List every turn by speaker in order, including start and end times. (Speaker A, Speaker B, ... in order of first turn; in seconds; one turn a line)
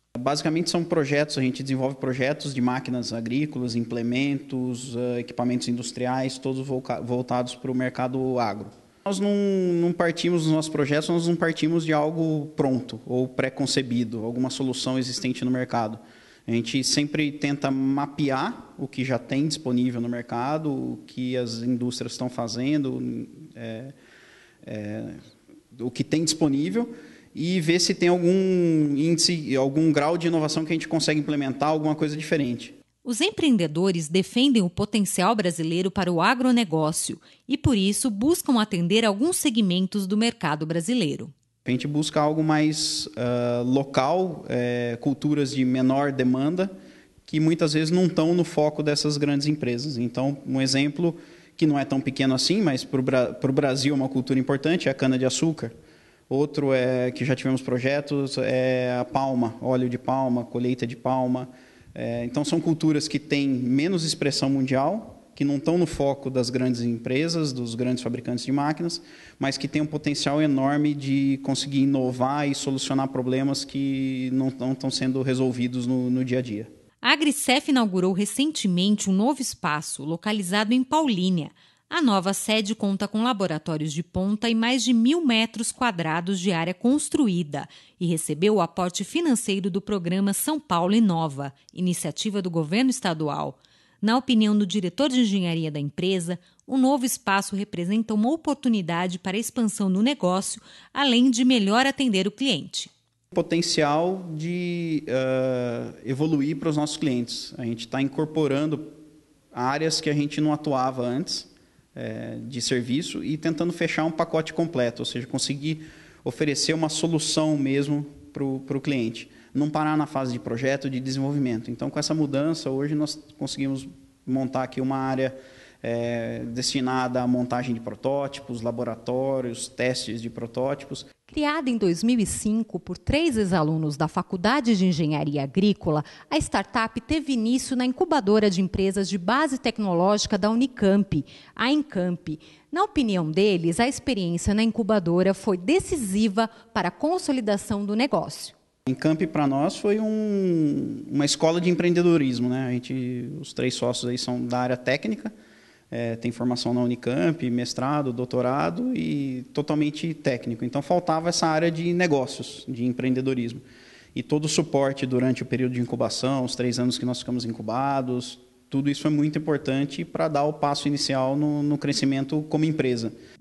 Speaker A: 0.2-23.9
Speaker A: 24.6-25.2
Speaker A: 25.7-32.8
Speaker B: 33.0-41.3
Speaker A: 41.6-46.7
Speaker A: 47.3-55.7
Speaker A: 56.3-76.7
Speaker B: 77.0-102.9
Speaker A: 103.3-108.9
Speaker A: 109.5-131.1
Speaker B: 131.3-148.6
Speaker A: 148.9-155.3
Speaker A: 155.9-163.6
Speaker A: 164.2-173.1